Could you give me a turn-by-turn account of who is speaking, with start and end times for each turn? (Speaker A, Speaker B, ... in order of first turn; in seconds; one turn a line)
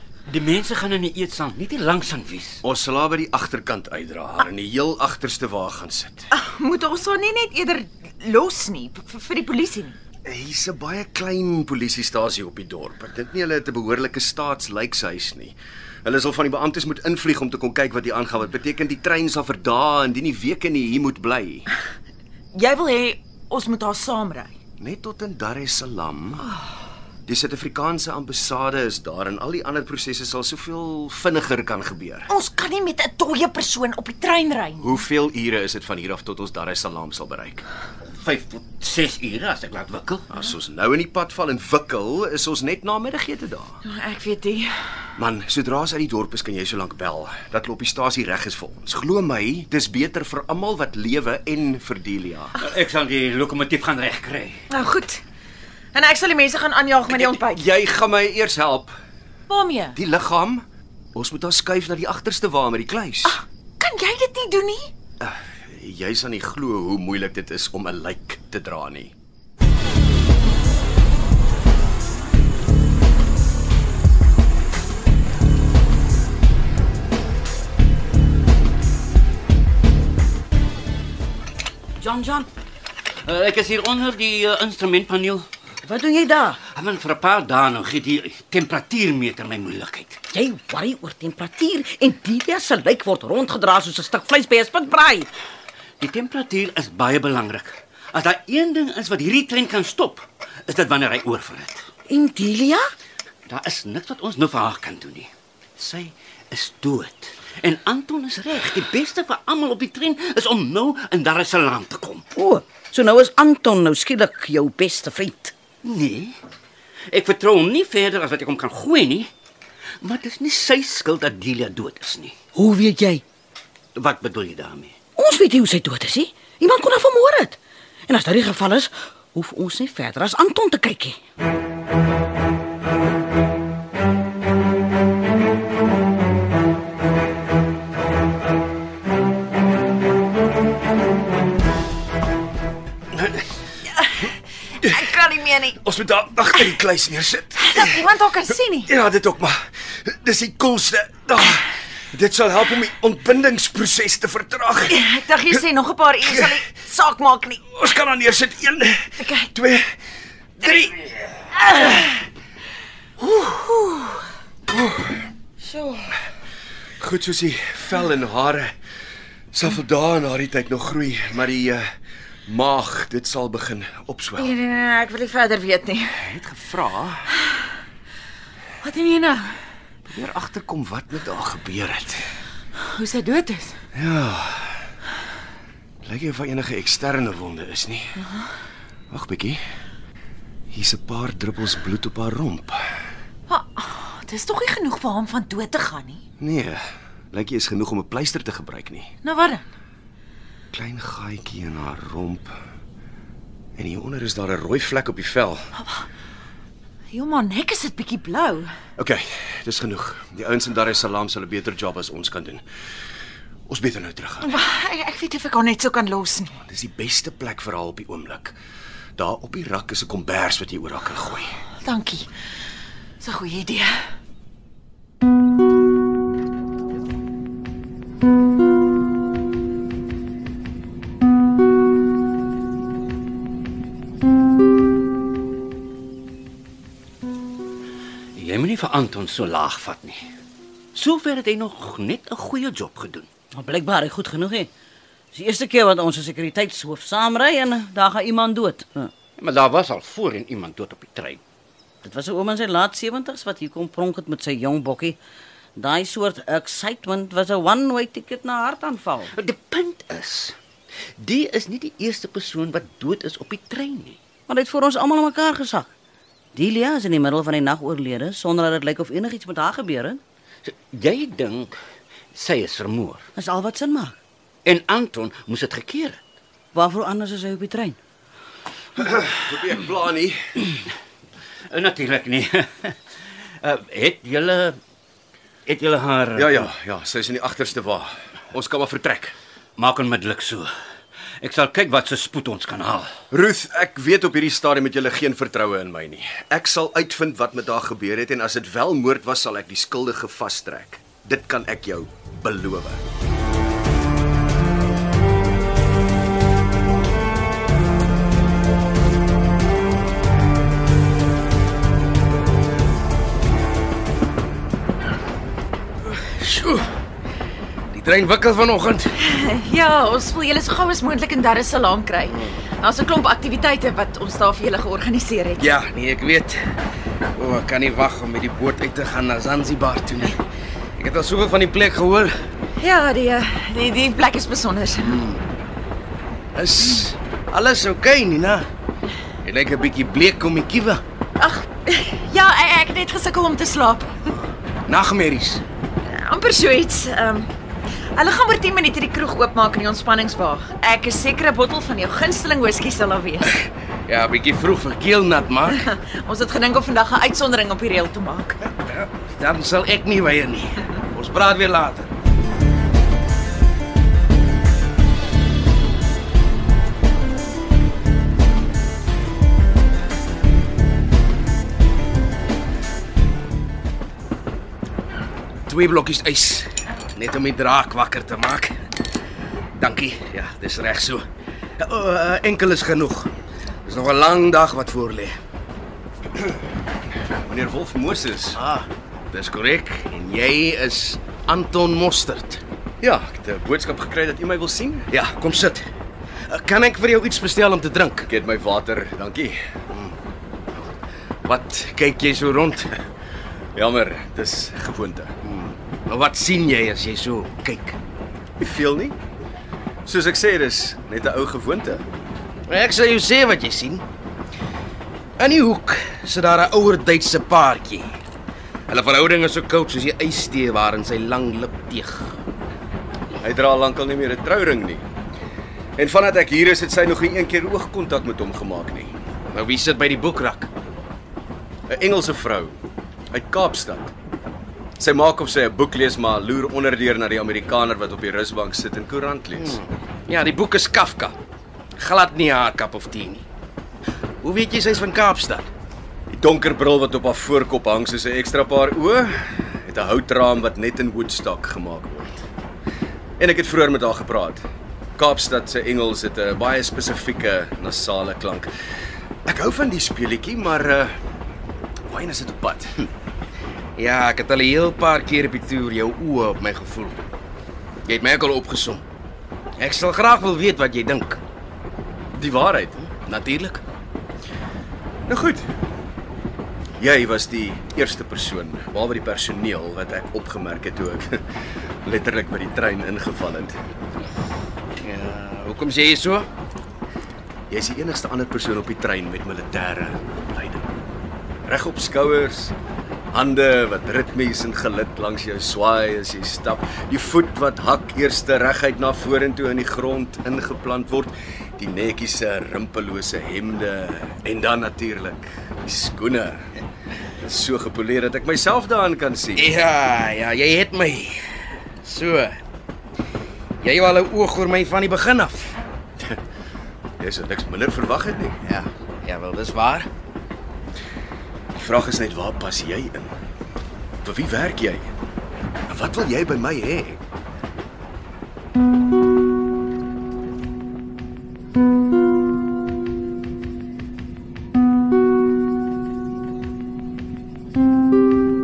Speaker A: 0.3-2.6
Speaker B: 2.6-6.3
Speaker C: 6.3-10.0
Speaker B: 10.2-21.7
Speaker C: 22.5-24.5
Speaker B: 24.8-26.5
Speaker B: 27.3-32.3
Speaker C: 32.3-35.0
Speaker B: 34.8-37.6
Speaker A: 38.1-40.3
Speaker B: 40.3-43.8
Speaker C: 43.9-44.7
Speaker B: 45.2-52.6
Speaker A: 52.6-54.6
Speaker C: 54.7-55.2
Speaker C: 55.9-57.6
Speaker B: 57.1-59.0
Speaker C: 59.5-60.0
Speaker B: 60.0-63.4
Speaker C: 63.2-64.9
Speaker B: 65.2-69.1
Speaker D: 82.0-82.5
Speaker A: 83.2-85.5
Speaker D: 85.8-86.6
Speaker A: 86.7-90.2
Speaker D: 90.3-95.3
Speaker A: 96.0-101.9
Speaker D: 102.1-102.8
Speaker A: 103.5-112.3
Speaker D: 112.3-115.5
Speaker A: 115.8-116.4
Speaker A: 117.1-119.3
Speaker A: 120.0-122.4
Speaker D: 122.5-123.2
Speaker A: 124.0-125.0
Speaker D: 125.2-131.2
Speaker C: 144.1-145.8
Speaker B: 145.8-148.1
Speaker C: 147.6-148.9
Speaker B: 148.9-155.6
Speaker C: 154.9-157.6
Speaker B: 156.2-156.6
Speaker B: 157.7-160.0
Speaker C: 159.2-159.5
Speaker B: 160.6-161.1
Speaker C: 163.5-164.1
Speaker C: 165.6-166.1
Speaker B: 167.0-168.7
Speaker B: 169.5-171.9
Speaker B: 172.5-174.6
Speaker C: 174.4-176.1
Speaker B: 176.2-177.3
Speaker C: 178.8-179.6
Speaker B: 180.1-182.3
Speaker C: 182.8-183.8
Speaker B: 183.9-184.8
Speaker B: 186.0-188.2
Speaker B: 189.1-189.6
Speaker B: 190.7-192.9
Speaker C: 193.5-196.2
Speaker B: 196.4-199.1
Speaker C: 199.2-199.7
Speaker B: 200.7-202.6
Speaker B: 203.8-205.7
Speaker C: 205.8-206.1
Speaker C: 207.1-208.7
Speaker B: 209.0-212.6
Speaker B: 213.7-214.6
Speaker C: 214.4-216.6
Speaker B: 216.6-218.6
Speaker B: 219.2-221.6
Speaker C: 221.8-222.3
Speaker C: 223.2-224.0
Speaker A: 238.3-240.2
Speaker A: 240.9-243.3
Speaker D: 243.5-244.7
Speaker D: 245.3-249.1
Speaker A: 249.4-251.4
Speaker D: 252.0-255.2
Speaker D: 255.8-259.3
Speaker A: 259.4-260.6
Speaker A: 261.2-264.2
Speaker D: 264.5-265.9
Speaker D: 266.5-270.2
Speaker A: 270.6-271.7
Speaker A: 272.3-273.3
Speaker D: 273.4-274.2
Speaker A: 274.6-276.2
Speaker D: 276.7-278.0
Speaker B: 279.0-280.4
Speaker A: 281.7-282.9
Speaker A: 283.6-284.8
Speaker A: 285.7-286.7
Speaker B: 286.4-289.4
Speaker A: 289.8-290.7
Speaker A: 291.4-293.1
Speaker B: 293.3-303.0
Speaker E: 316.1-316.9
Speaker E: 317.9-319.1
Speaker C: 319.2-325.7
Speaker E: 325.6-326.6
Speaker E: 327.4-330.4
Speaker E: 331.0-332.4
Speaker C: 332.8-335.2
Speaker E: 335.0-335.4
Speaker E: 336.6-338.7
Speaker E: 339.4-341.0
Speaker C: 341.4-344.3
Speaker E: 344.9-345.6
Speaker C: 346.0-347.5
Speaker C: 348.2-353.5
Speaker E: 354.1-355.8
Speaker C: 355.7-358.6
Speaker E: 358.8-362.1
Speaker E: 375.7-378.8
Speaker E: 379.8-381.3
Speaker E: 381.8-383.3
Speaker E: 383.9-385.4
Speaker B: 387.2-388.6
Speaker E: 388.6-392.6
Speaker B: 393.0-395.1
Speaker E: 395.1-395.9
Speaker E: 396.5-398.3
Speaker B: 398.3-399.6
Speaker E: 401.4-403.0
Speaker B: 403.8-405.3
Speaker E: 405.4-408.0
Speaker B: 408.6-409.2
Speaker B: 410.1-412.0
Speaker E: 412.7-414.1
Speaker E: 415.4-418.1
Speaker E: 418.9-422.4
Speaker B: 423.4-425.1
Speaker B: 426.0-429.2
Speaker E: 429.5-430.7
Speaker B: 431.9-432.8
Speaker B: 433.3-434.1
Speaker B: 435.0-439.8
Speaker E: 439.6-441.4
Speaker E: 442.0-443.4
Speaker E: 444.4-445.7
Speaker B: 446.3-452.4
Speaker B: 453.4-454.6
Speaker B: 455.2-458.7
Speaker B: 459.5-461.2
Speaker B: 462.1-463.0
Speaker E: 464.0-467.2
Speaker E: 468.1-469.0
Speaker E: 469.8-471.4
Speaker B: 472.3-473.1
Speaker E: 473.1-473.8
Speaker B: 475.3-475.7
Speaker B: 477.0-481.4
Speaker B: 482.0-483.8
Speaker E: 485.0-486.5
Speaker B: 487.7-490.9
Speaker B: 491.7-492.8
Speaker B: 493.3-506.7
Speaker B: 507.4-509.7
Speaker E: 509.6-511.5
Speaker E: 512.0-512.6
Speaker E: 513.8-515.8
Speaker B: 517.2-518.6
Speaker E: 518.6-520.1
Speaker B: 521.7-523.3
Speaker B: 524.2-525.1
Speaker B: 525.9-527.2